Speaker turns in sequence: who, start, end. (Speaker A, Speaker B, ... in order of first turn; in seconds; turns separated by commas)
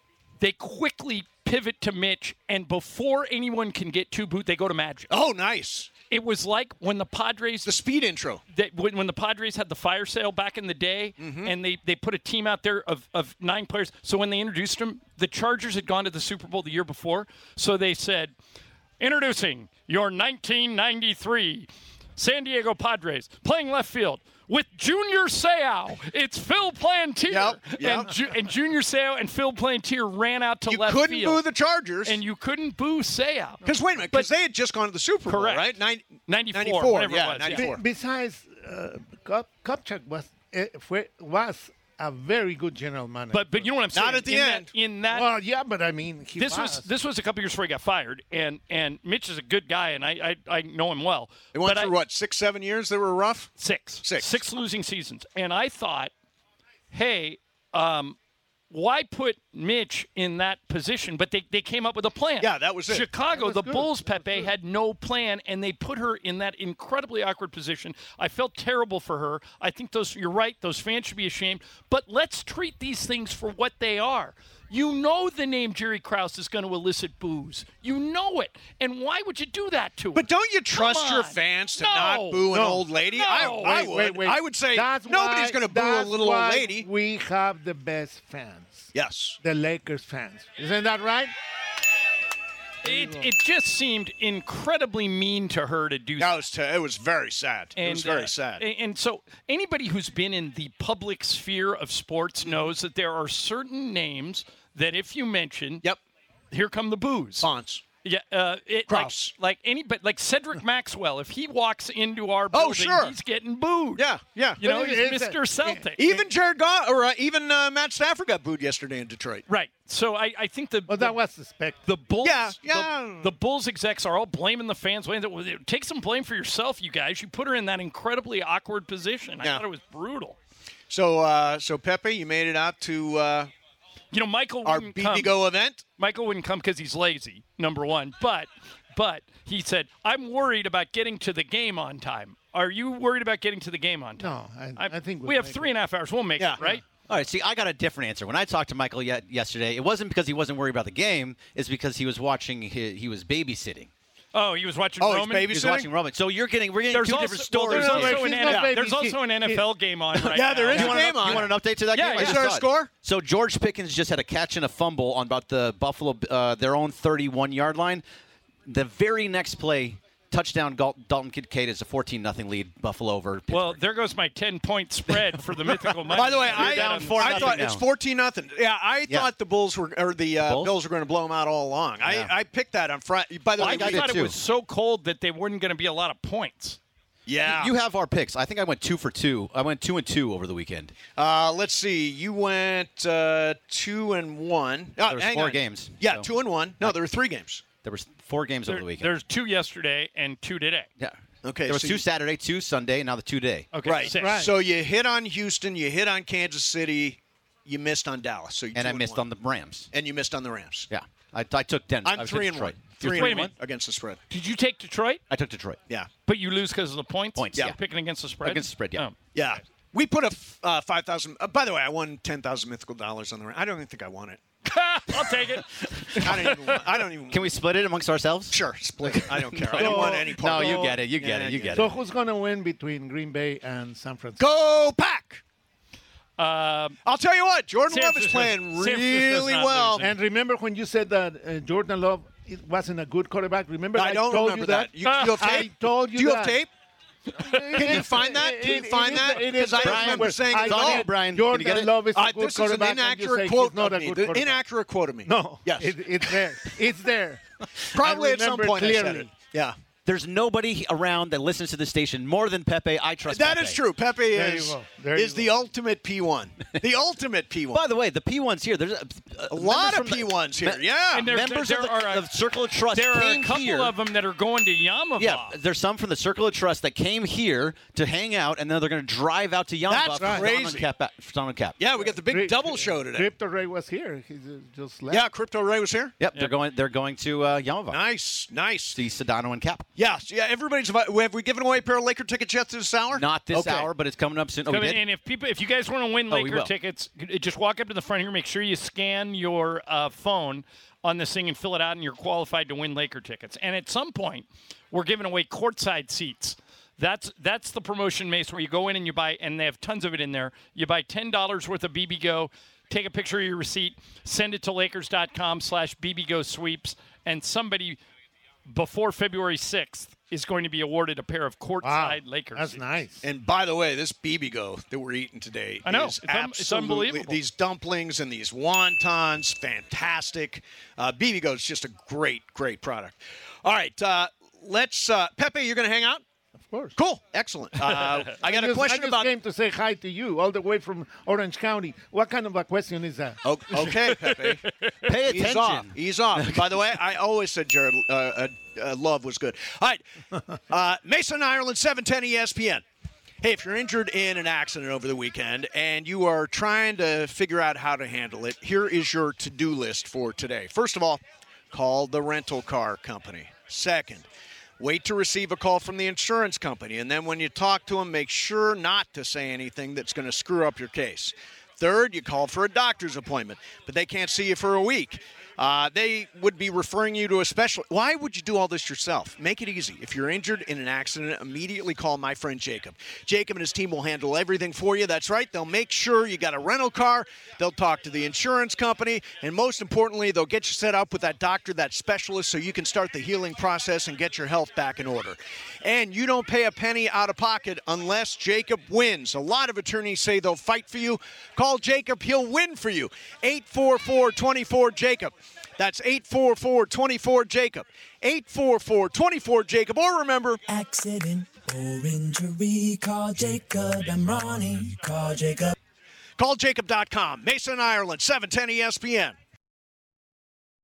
Speaker A: 0.4-5.1, Speaker B: 5.1-5.9, Speaker A: 6.1-7.7, Speaker B: 7.7-8.4, Speaker A: 8.5-18.3, Speaker B: 11.2-11.5, Speaker A: 19.0-31.4, Speaker B: 27.3-28.1, Speaker B: 30.7-32.2, Speaker A: 32.0-34.3, Speaker B: 33.6-37.8, Speaker A: 35.3-35.7, Speaker A: 36.3-37.7, Speaker C: 37.5-43.7, Speaker A: 43.3-45.3, Speaker B: 43.9-44.7, Speaker C: 45.1-46.9, Speaker A: 46.4-51.9, Speaker B: 51.5-53.5, Speaker A: 53.6-56.1, Speaker B: 54.0-54.3, Speaker A: 56.9-58.2, Speaker A: 58.7-82.5, Speaker B: 62.4-63.1, Speaker C: 63.3-64.5, Speaker B: 80.2-86.9, Speaker C: 82.5-91.3, Speaker A: 83.1-83.9, Speaker B: 88.9-89.4, Speaker A: 92.8-96.3, Speaker C: 92.8-93.3, Speaker B: 96.2-98.6, Speaker A: 97.8-105.9, Speaker A: 106.5-107.5, Speaker B: 107.4-107.8, Speaker A: 108.0-114.0, Speaker B: 108.9-109.3, Speaker B: 112.5-113.2, Speaker B: 114.0-114.6, Speaker A: 114.6-116.0, Speaker C: 114.6-116.3, Speaker B: 116.0-119.4, Speaker A: 119.5-121.2, Speaker C: 120.9-121.8, Speaker A: 121.8-130.4, Speaker B: 122.2-123.3, Speaker B: 130.9-133.5, Speaker A: 134.1-135.4, Speaker B: 134.7-135.8, Speaker A: 136.0-146.8, Speaker C: 144.2-145.8, Speaker D: 147.1-153.9, Speaker A: 154.3-155.6, Speaker B: 155.0-155.9, Speaker D: 155.5-158.4, Speaker A: 156.9-162.4, Speaker C: 157.7-159.7, Speaker B: 160.3-161.6, Speaker D: 160.7-168.0, Speaker B: 162.2-162.9, Speaker D: 168.7-173.8, Speaker A: 173.5-177.7, Speaker D: 175.7-177.8, Speaker B: 176.1-184.3, Speaker D: 180.4-180.7, Speaker D: 182.0-182.3, Speaker A: 183.6-186.8, Speaker D: 183.6-184.4, Speaker B: 187.3-187.7, Speaker D: 187.4-190.9, Speaker B: 191.2-197.7, Speaker D: 195.0-197.0, Speaker D: 197.8-199.1, Speaker A: 198.7-200.9, Speaker D: 201.0-203.7, Speaker B: 201.4-202.0, Speaker A: 203.7-204.5, Speaker B: 203.8-209.2, Speaker C: 204.0-204.5, Speaker D: 208.7-209.9, Speaker B: 209.9-210.9, Speaker D: 210.9-213.5, Speaker B: 212.1-214.2, Speaker A: 213.0-213.5, Speaker A: 214.3-215.2, Speaker D: 215.3-215.8, Speaker A: 216.3-219.2, Speaker D: 217.4-217.8, Speaker D: 218.4-219.1, Speaker B: 219.3-224.4, Speaker A: 224.7-226.8, Speaker B: 226.2-227.4, Speaker D: 227.3-231.9, Speaker B: 228.5-231.9, Speaker C: 229.8-230.9, Speaker C: 231.7-234.4, Speaker B: 234.4-235.4, Speaker A: 236.4-237.0, Speaker B: 237.1-240.1, Speaker A: 237.9-240.2, Speaker C: 240.0-246.6, Speaker B: 243.9-246.7, Speaker A: 245.0-245.6, Speaker A: 247.4-248.0, Speaker C: 247.4-254.6, Speaker B: 247.7-251.1, Speaker D: 249.8-251.9, Speaker B: 252.1-256.4, Speaker C: 255.3-257.4, Speaker B: 257.9-259.8, Speaker C: 257.9-259.3, Speaker D: 260.1-263.8, Speaker B: 263.3-267.8, Speaker C: 264.3-265.5, Speaker D: 267.7-273.9, Speaker B: 269.5-271.3, Speaker A: 271.1-272.3, Speaker A: 272.9-275.6, Speaker D: 275.2-281.8, Speaker B: 279.9-280.9, Speaker C: 280.2-280.5, Speaker B: 281.8-283.3, Speaker C: 282.1-285.2, Speaker B: 285.1-286.1, Speaker D: 286.2-288.0, Speaker B: 287.9-289.0, Speaker D: 288.9-289.9, Speaker B: 290.0-293.3, Speaker D: 293.1-295.0, Speaker A: 293.6-293.9, Speaker A: 294.7-318.0, Speaker D: 296.3-296.7, Speaker A: 318.7-322.8, Speaker C: 321.8-323.2, Speaker B: 323.2-336.2, Speaker A: 325.9-327.4, Speaker C: 336.7-336.9, Speaker B: 336.9-339.3, Speaker C: 338.4-343.4, Speaker B: 343.4-350.0, Speaker A: 343.8-344.9, Speaker D: 345.1-346.7, Speaker B: 350.7-352.8, Speaker B: 353.4-364.3, Speaker B: 364.8-410.6, Speaker E: 410.7-415.8, Speaker B: 416.4-419.4